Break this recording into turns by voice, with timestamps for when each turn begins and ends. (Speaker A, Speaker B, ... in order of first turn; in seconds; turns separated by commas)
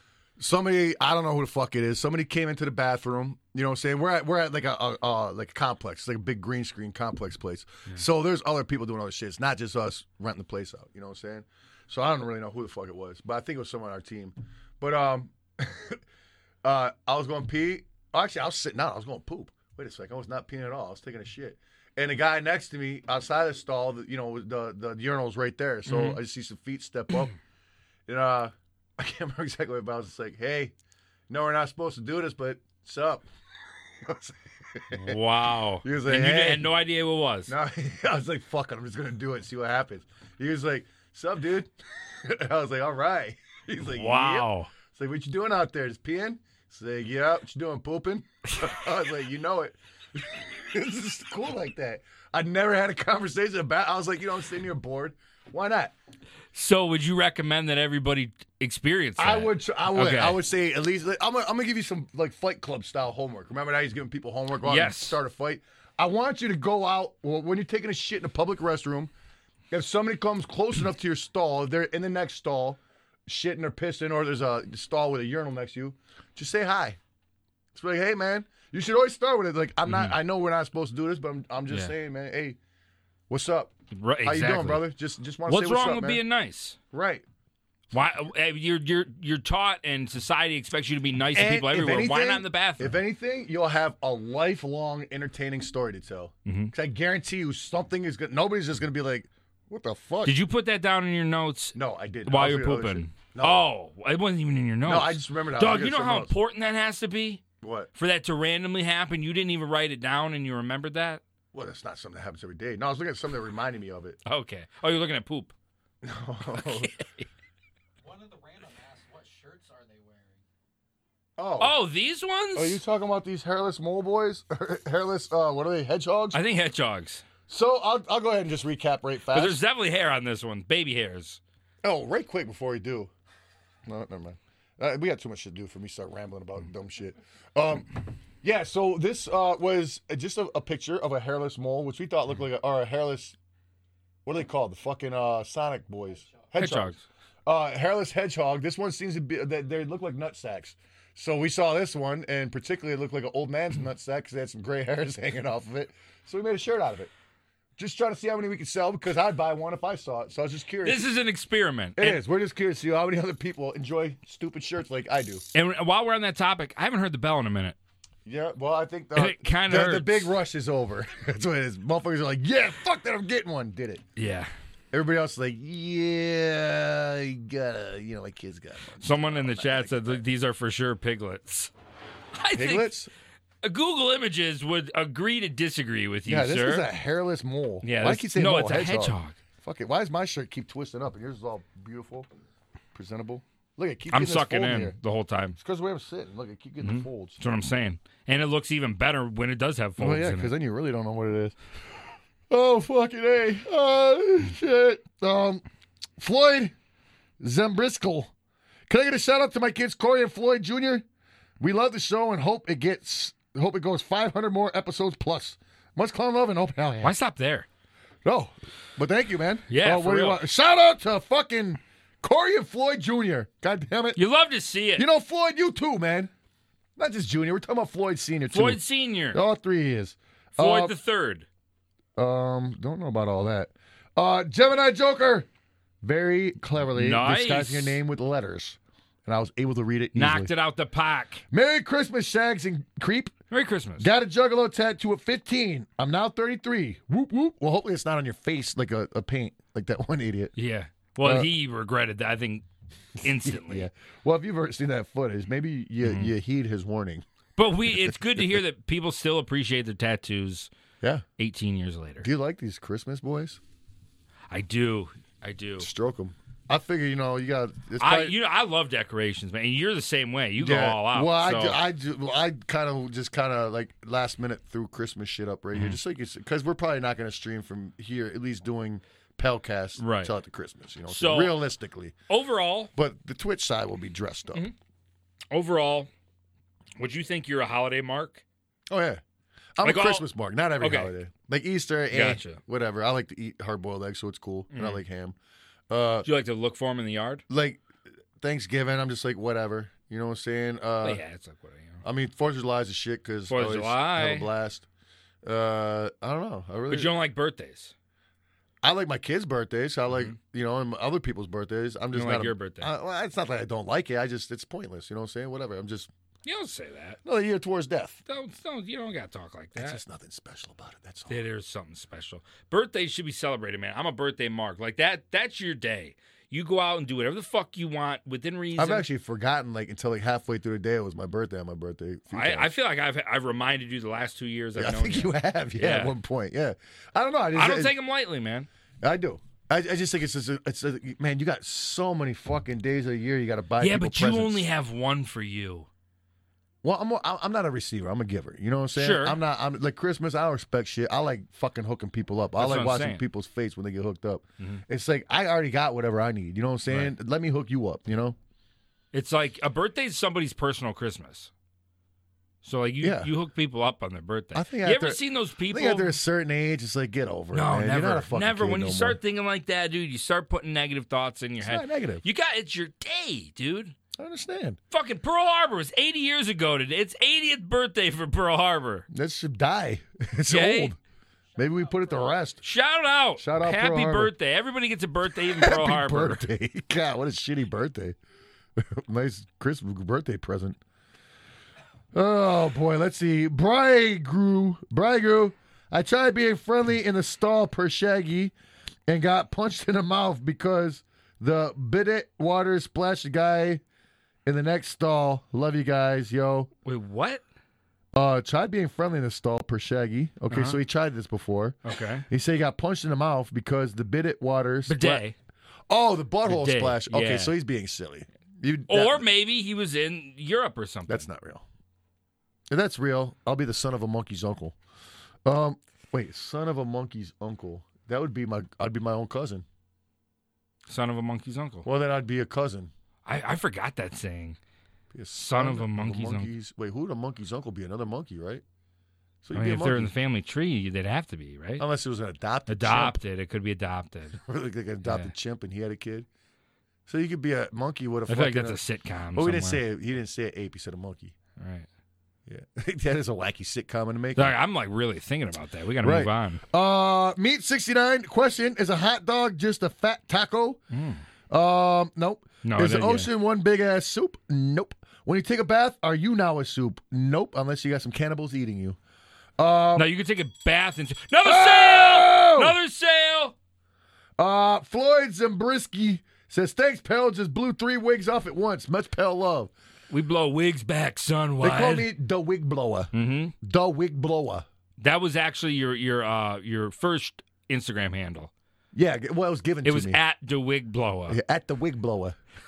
Speaker A: 0.4-16.0, Speaker A: 16.6-27.3, Speaker B: 25.9-26.2, Speaker A: 28.1-30.7, Speaker A: 31.3-33.3, Speaker A: 34.0-35.2, Speaker B: 34.9-37.5, Speaker A: 35.8-36.7, Speaker A: 37.5-55.9, Speaker B: 43.8-44.7, Speaker B: 56.5-60.4, Speaker A: 59.2-69.1, Speaker B: 64.6-65.2, Speaker A: 69.7-77.0, Speaker A: 77.7-82.6, Speaker B: 79.8-80.1, Speaker A: 83.3-83.7, Speaker B: 83.9-84.8, Speaker A: 84.2-86.2, Speaker B: 85.5-86.8, Speaker A: 86.9-87.2, Speaker B: 87.9-93.0, Speaker A: 91.3-100.4, Speaker B: 96.5-96.7, Speaker B: 100.2-111.2, Speaker A: 101.7-103.7, Speaker A: 104.8-106.3, Speaker A: 107.6-107.9, Speaker A: 111.5-114.2, Speaker B: 114.2-115.5, Speaker A: 116.0-116.9, Speaker B: 116.5-117.2, Speaker C: 118.0-120.4, Speaker A: 121.4-121.8, Speaker B: 121.6-122.8, Speaker A: 122.5-126.4, Speaker B: 126.3-127.2, Speaker A: 127.5-129.6, Speaker B: 129.3-131.4, Speaker A: 131.8-133.1, Speaker A: 133.8-143.3, Speaker A: 144.2-146.9, Speaker B: 146.6-147.0, Speaker A: 147.4-157.1, Speaker A: 157.8-161.1, Speaker B: 160.8-162.2, Speaker A: 161.9-165.4, Speaker B: 165.5-167.8, Speaker A: 168.2-174.0, Speaker B: 169.1-170.3, Speaker B: 174.2-174.5, Speaker A: 174.9-180.2, Speaker B: 179.0-181.7, Speaker B: 182.3-182.9, Speaker A: 182.5-183.1, Speaker B: 183.6-186.9, Speaker A: 186.2-192.3, Speaker B: 187.8-189.4, Speaker A: 192.9-194.9, Speaker B: 194.1-195.6, Speaker A: 195.6-197.4, Speaker B: 196.8-200.5, Speaker A: 200.0-205.6, Speaker A: 206.2-206.7, Speaker A: 207.4-208.3, Speaker A: 208.9-211.0, Speaker A: 211.6-217.1, Speaker B: 217.0-217.7, Speaker A: 218.2-224.2, Speaker B: 219.7-220.4, Speaker B: 224.2-225.1, Speaker A: 225.0-226.3, Speaker A: 227.0-228.8, Speaker B: 228.5-229.4, Speaker A: 229.3-230.9, Speaker B: 230.6-231.4, Speaker A: 232.2-235.5, Speaker A: 236.0-240.5, Speaker B: 236.9-238.0, Speaker B: 240.1-241.4, Speaker A: 241.5-243.3, Speaker B: 243.5-244.1, Speaker A: 244.0-250.5, Speaker B: 250.6-252.6, Speaker A: 251.2-251.5, Speaker B: 253.2-253.9, Speaker A: 253.2-257.2, Speaker B: 256.0-256.3, Speaker B: 257.6-260.7, Speaker A: 257.9-258.6, Speaker B: 261.4-262.3, Speaker A: 262.2-263.6, Speaker B: 264.5-265.9, Speaker A: 265.8-268.4, Speaker B: 268.0-271.8, Speaker A: 270.6-282.1, Speaker B: 280.0-280.3, Speaker B: 281.1-281.6, Speaker B: 282.3-282.9, Speaker A: 282.9-284.6, Speaker B: 285.5-286.1, Speaker B: 287.0-288.4, Speaker A: 288.9-289.2, Speaker A: 289.8-295.4, Speaker B: 289.8-290.3, Speaker B: 290.8-291.1, Speaker B: 292.1-292.6, Speaker B: 294.7-295.0, Speaker A: 295.9-296.3, Speaker B: 296.2-297.4, Speaker A: 297.5-297.8, Speaker A: 298.4-301.2, Speaker B: 301.0-302.0, Speaker A: 302.0-304.9, Speaker B: 303.5-304.5, Speaker A: 305.4-307.1, Speaker B: 306.9-307.9, Speaker A: 308.8-316.1, Speaker B: 310.1-310.4, Speaker B: 312.1-312.9, Speaker B: 316.4-317.2, Speaker A: 317.2-318.2, Speaker B: 318.2-320.0, Speaker A: 319.8-321.4, Speaker B: 321.3-329.1, Speaker A: 328.8-332.7, Speaker B: 332.3-336.1, Speaker A: 334.7-337.9, Speaker B: 337.5-338.7, Speaker A: 339.0-344.7, Speaker B: 343.8-345.9, Speaker A: 346.8-358.4, Speaker B: 348.9-349.4, Speaker B: 352.6-353.2, Speaker B: 356.9-357.1, Speaker B: 359.1-361.5, Speaker B: 362.6-366.1, Speaker A: 363.0-363.3, Speaker A: 364.5-369.2, Speaker B: 367.5-373.9, Speaker A: 371.6-372.2, Speaker A: 374.1-374.8, Speaker B: 374.9-379.1, Speaker A: 379.1-381.0, Speaker B: 380.5-380.9, Speaker A: 381.6-382.6, Speaker B: 382.6-386.4, Speaker A: 383.4-384.3, Speaker A: 385.3-388.1, Speaker A: 388.8-390.8, Speaker A: 392.1-398.5, Speaker A: 399.1-403.8, Speaker A: 404.4-406.7, Speaker B: 406.8-407.4, Speaker A: 408.1-415.2, Speaker B: 410.5-410.8, Speaker B: 411.8-412.2, Speaker B: 414.9-415.3, Speaker A: 415.9-419.2, Speaker B: 416.4-417.5, Speaker B: 418.9-421.3, Speaker A: 421.1-421.6, Speaker A: 422.7-424.8, Speaker A: 425.4-429.6, Speaker B: 430.9-431.9, Speaker A: 431.8-432.9, Speaker B: 433.2-434.6, Speaker A: 435.1-438.6, Speaker B: 435.3-436.5, Speaker A: 439.4-440.1, Speaker B: 439.5-441.8, Speaker A: 441.8-443.2, Speaker B: 442.7-444.4, Speaker A: 444.3-446.3, Speaker B: 445.0-445.3, Speaker A: 447.1-448.8, Speaker B: 448.3-449.8, Speaker A: 449.3-451.3, Speaker B: 451.6-451.9, Speaker A: 452.4-454.6, Speaker B: 454.4-456.6, Speaker A: 456.0-460.8, Speaker B: 460.9-461.2, Speaker A: 461.5-469.0, Speaker B: 462.6-463.3, Speaker A: 469.6-470.1, Speaker B: 469.9-473.5, Speaker A: 471.4-472.8, Speaker A: 474.4-479.7, Speaker B: 480.1-482.1, Speaker A: 481.6-484.6, Speaker B: 483.1-483.5, Speaker B: 485.0-488.5, Speaker A: 488.9-490.2, Speaker B: 489.8-491.4, Speaker A: 491.3-492.4